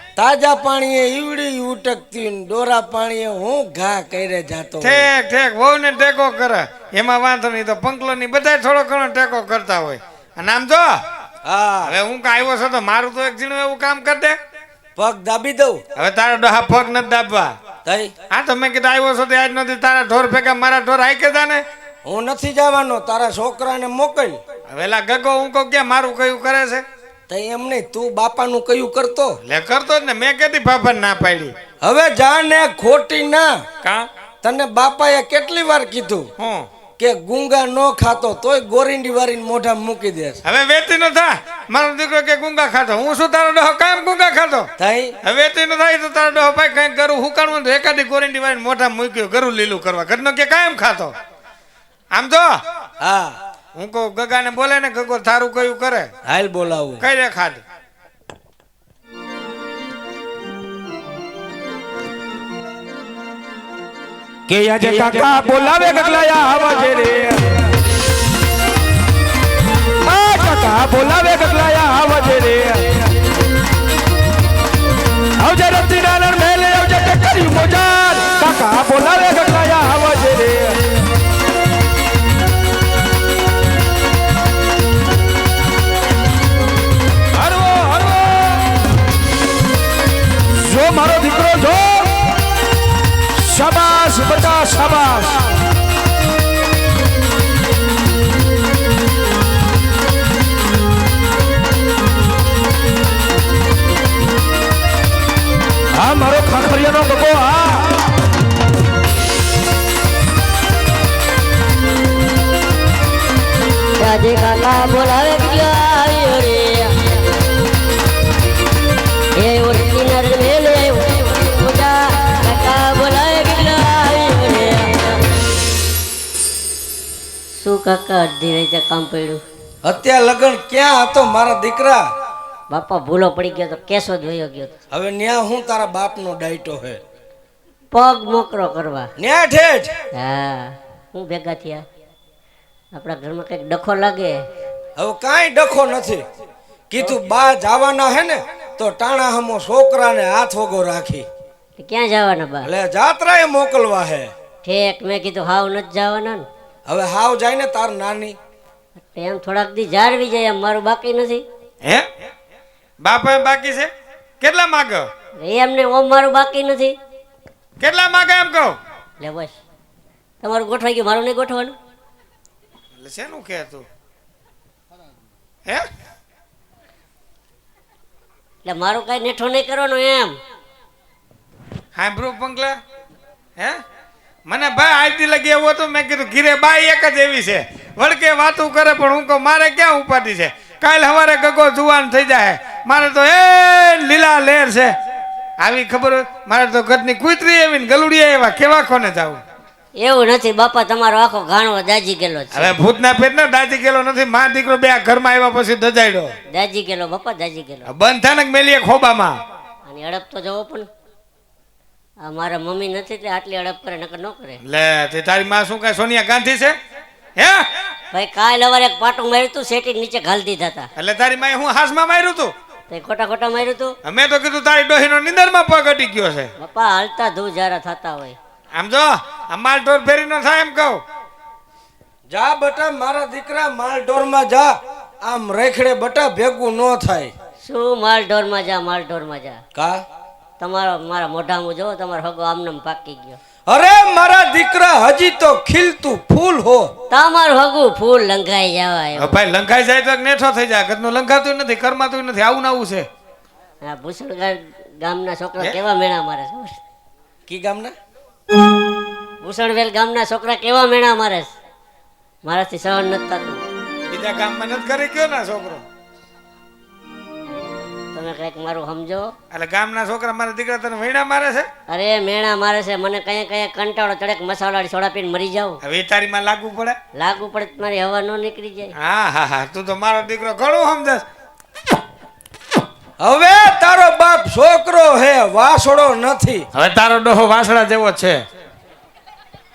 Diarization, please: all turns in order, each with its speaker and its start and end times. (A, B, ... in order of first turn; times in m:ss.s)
0:00.2-0:05.1 A
0:04.8-0:11.0 B
0:11.5-0:12.0 A
0:11.9-0:14.4 B
0:15.0-0:15.8 A
0:16.0-0:17.6 B
0:17.8-0:18.1 A
0:18.3-0:21.6 B
0:22.0-0:24.4 A
0:24.7-0:26.8 B
0:27.3-0:29.4 A
0:29.5-0:31.5 B
0:31.8-0:33.5 A
0:34.4-0:36.3 A
0:36.4-0:36.7 B
0:37.0-0:40.4 A
0:40.4-0:44.7 B
0:44.8-0:45.2 A
0:45.2-0:51.1 B
0:52.1-0:52.6 B
0:53.0-0:53.4 A
0:53.8-0:56.1 B
0:56.3-0:57.0 A
0:57.0-0:57.6 B
1:04.5-1:07.4 C
1:04.8-1:06.5 A
1:10.1-1:12.9 C
1:15.4-1:20.8 C
1:27.4-1:28.7 C
1:30.6-1:32.3 C
1:33.4-1:35.5 C
1:46.0-1:47.8 C
1:54.0-1:57.0 D
1:59.4-2:05.2 D
2:07.6-2:09.4 D
2:09.8-2:12.0 A
2:12.7-2:14.7 D
2:14.9-2:17.0 A
2:17.9-2:19.1 D
2:19.2-2:19.9 A
2:20.2-2:21.8 D
2:23.0-2:24.4 D
2:25.0-2:26.2 A
2:26.9-2:31.2 A
2:31.8-2:32.7 D
2:32.6-2:34.3 A
2:34.6-2:36.4 D
2:36.9-2:38.4 A
2:39.0-2:41.4 D
2:43.0-2:43.9 B
2:44.4-2:45.1 B
2:45.4-2:47.0 D
2:47.8-2:48.8 B
2:49.2-2:49.6 D
2:50.4-2:51.8 D
2:53.0-2:53.9 B
2:58.6-3:00.4 D
3:02.0-3:02.8 B
3:04.5-3:14.9 B
3:15.6-3:19.4 B
3:20.0-3:22.8 D
3:22.5-3:26.3 B
3:26.5-3:27.9 D
3:27.9-3:29.4 B
3:29.9-3:30.9 D
3:32.2-3:34.6 D
3:34.6-3:36.8 B
3:37.4-3:37.7 B
3:38.1-3:40.9 D
3:41.0-3:42.5 B
3:42.9-3:43.9 D
3:44.0-3:46.5 B
3:46.6-3:48.4 D
3:48.7-3:51.0 B
3:52.3-3:57.3 A
3:57.6-3:59.6 D
3:59.8-4:00.0 A
4:00.6-4:03.4 D
4:03.7-4:06.9 A
4:07.1-4:09.4 D
4:09.2-4:13.1 B
4:13.8-4:16.8 D
4:17.5-4:18.0 A
4:19.4-4:21.5 D
4:22.4-4:23.6 D
4:24.1-4:25.8 B
4:28.1-4:29.3 D
4:29.5-4:31.7 B
4:31.9-4:35.8 D
4:35.8-4:37.0 B
4:37.2-4:38.9 D
4:39.0-4:41.2 B
4:43.2-4:46.7 A
4:46.7-4:48.4 B